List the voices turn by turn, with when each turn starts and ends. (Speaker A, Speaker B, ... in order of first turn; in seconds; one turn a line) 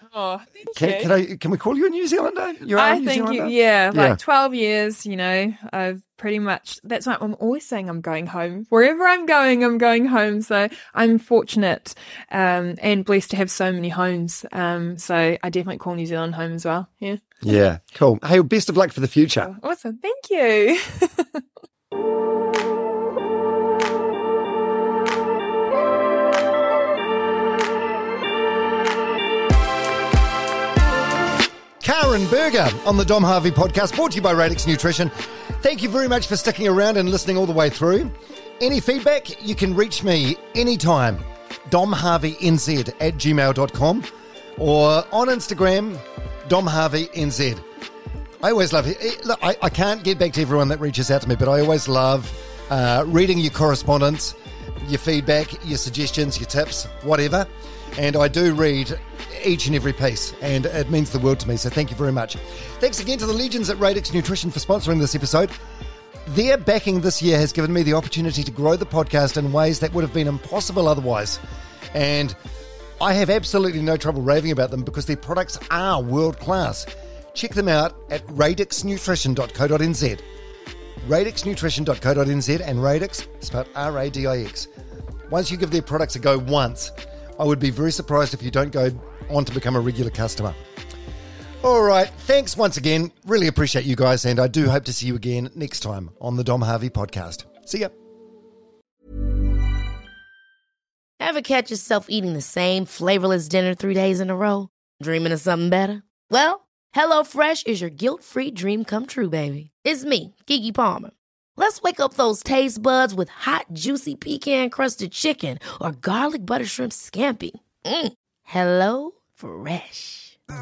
Speaker A: 0.1-1.1
Speaker B: 0.8-4.2
Speaker A: 2.8-17.3
Speaker B: 17.4-19.5
Speaker A: 19.4-21.4
Speaker B: 31.8-44.0
Speaker B: 44.6-47.6
Speaker B: 48.4-65.5
Speaker B: 66.2-71.4
Speaker B: 71.9-72.3
Speaker B: 73.0-80.2
Speaker B: 81.0-84.7
Speaker B: 85.3-90.5
Speaker B: 91.6-97.9
Speaker C: 101.2-120.3